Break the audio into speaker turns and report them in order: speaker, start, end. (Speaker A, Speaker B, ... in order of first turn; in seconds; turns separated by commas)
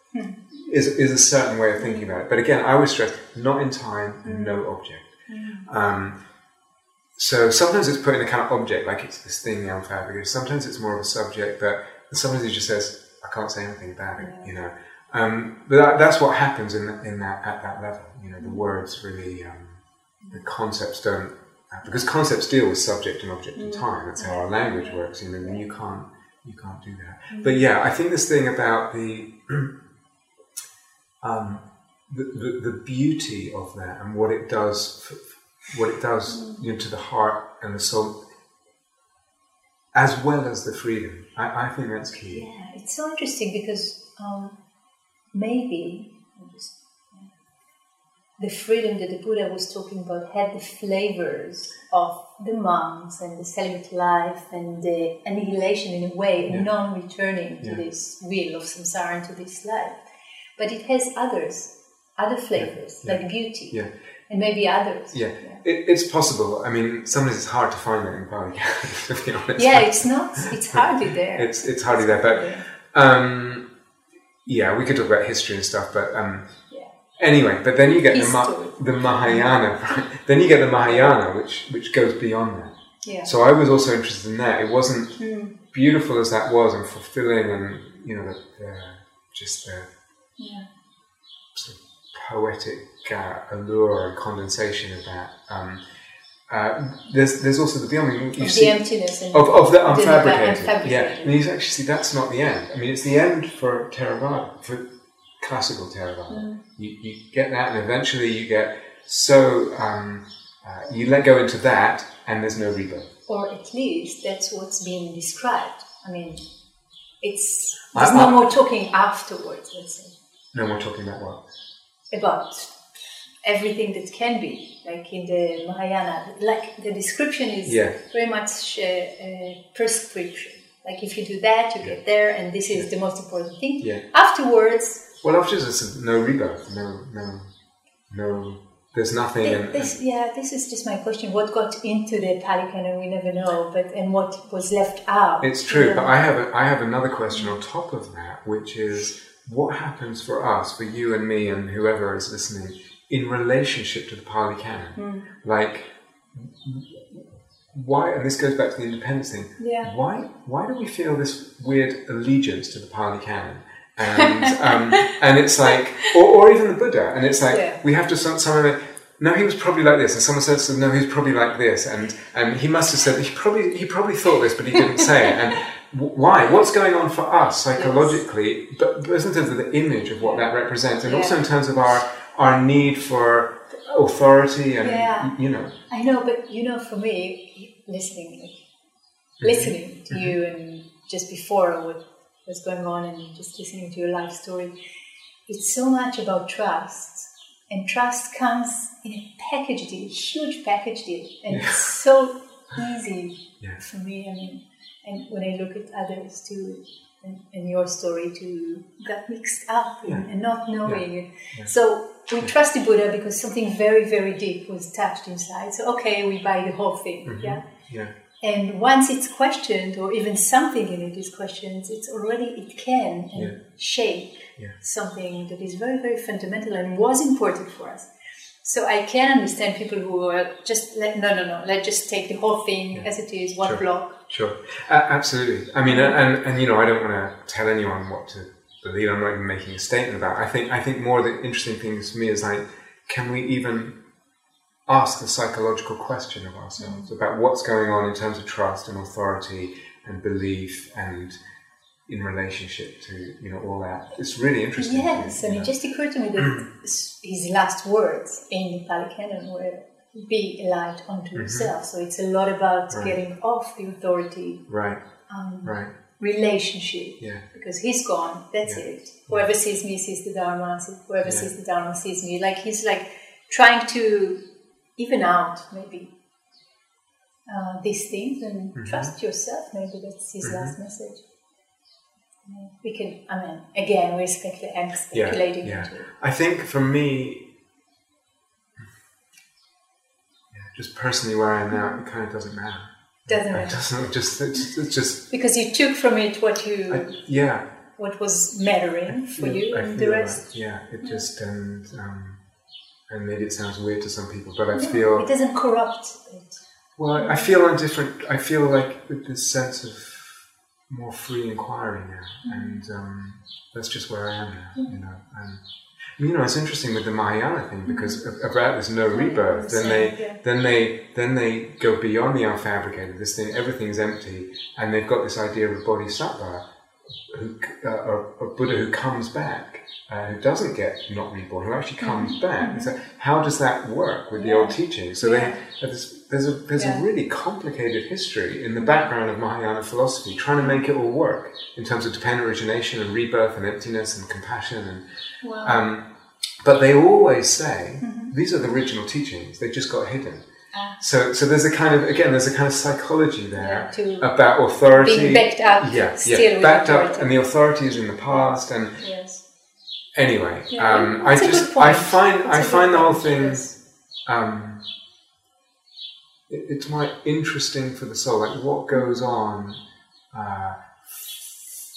Speaker A: 0.1-0.4, Speaker B: 0.5-5.1, Speaker A: 1.8-2.1, Speaker A: 4.2-4.6, Speaker A: 5.3-5.7, Speaker B: 5.7-6.2, Speaker B: 7.2-29.7, Speaker A: 14.2-14.5, Speaker A: 18.4-18.7, Speaker A: 23.6-25.6, Speaker A: 27.3-27.6, Speaker B: 31.2-38.2, Speaker A: 36.3-36.6, Speaker B: 39.9-42.5, Speaker A: 42.3-44.6, Speaker A: 45.3-47.3, Speaker A: 48.4-60.0, Speaker A: 60.5-63.8, Speaker B: 62.5-63.9, Speaker A: 64.3-65.6, Speaker B: 65.1-73.7, Speaker A: 69.5-72.6, Speaker B: 74.5-76.6, Speaker B: 77.2-89.9, Speaker A: 78.1-79.6, Speaker A: 80.8-81.1, Speaker A: 83.0-83.3, Speaker A: 85.2-85.5, Speaker A: 90.4-90.7, Speaker B: 91.5-95.8, Speaker B: 96.5-104.8, Speaker A: 98.4-101.4, Speaker B: 105.4-113.1, Speaker A: 106.3-106.6, Speaker A: 113.3-116.4, Speaker A: 117.2-120.1, Speaker B: 117.9-118.4, Speaker B: 120.5-121.4, Speaker A: 122.1-135.0, Speaker B: 127.6-128.0, Speaker B: 135.2-137.5, Speaker B: 138.1-139.9, Speaker A: 139.4-146.1, Speaker B: 145.4-185.7, Speaker A: 154.9-155.3, Speaker A: 159.6-159.9, Speaker A: 167.5-167.8, Speaker A: 177.7-178.2, Speaker A: 180.2-180.5, Speaker A: 181.0-181.4, Speaker A: 184.8-185.3, Speaker A: 185.9-188.6, Speaker B: 189.4-190.3, Speaker A: 189.4-194.7, Speaker A: 195.5-217.6, Speaker B: 201.5-201.9, Speaker B: 210.8-211.7, Speaker B: 217.2-218.1, Speaker A: 218.4-228.1, Speaker A: 228.6-234.2, Speaker B: 233.6-244.0, Speaker A: 235.8-236.2, Speaker B: 244.9-251.4, Speaker A: 246.8-247.1, Speaker B: 252.1-255.7, Speaker A: 254.8-264.6, Speaker B: 261.3-261.7, Speaker B: 262.9-263.2, Speaker B: 264.7-265.0, Speaker A: 265.3-274.4, Speaker B: 265.6-265.9, Speaker B: 268.6-269.5, Speaker B: 271.2-271.5, Speaker A: 275.0-276.1, Speaker A: 277.5-281.2, Speaker B: 278.8-279.1, Speaker B: 280.4-280.7, Speaker A: 282.4-286.1, Speaker B: 285.1-287.5, Speaker B: 290.5-295.2, Speaker A: 291.7-292.0, Speaker A: 293.3-293.8, Speaker A: 295.3-297.1, Speaker B: 296.9-297.6, Speaker A: 298.0-300.4, Speaker B: 299.1-302.4, Speaker B: 303.1-305.3, Speaker A: 304.7-306.6, Speaker B: 307.0-315.6, Speaker A: 307.1-307.6, Speaker A: 312.4-312.8, Speaker B: 316.2-326.6, Speaker A: 317.9-318.2, Speaker A: 319.1-320.4, Speaker B: 327.3-345.0, Speaker A: 332.0-332.9, Speaker A: 334.3-335.6, Speaker A: 336.8-337.0, Speaker A: 338.8-339.1, Speaker A: 345.4-345.8, Speaker B: 345.6-346.1, Speaker B: 346.6-350.4, Speaker A: 348.0-348.3, Speaker A: 350.7-351.0, Speaker B: 351.0-359.0, Speaker A: 353.6-354.3, Speaker A: 354.9-357.3, Speaker A: 358.3-359.4, Speaker B: 360.1-363.7, Speaker A: 360.7-363.7, Speaker B: 364.2-364.8, Speaker B: 366.5-369.8, Speaker B: 370.3-371.7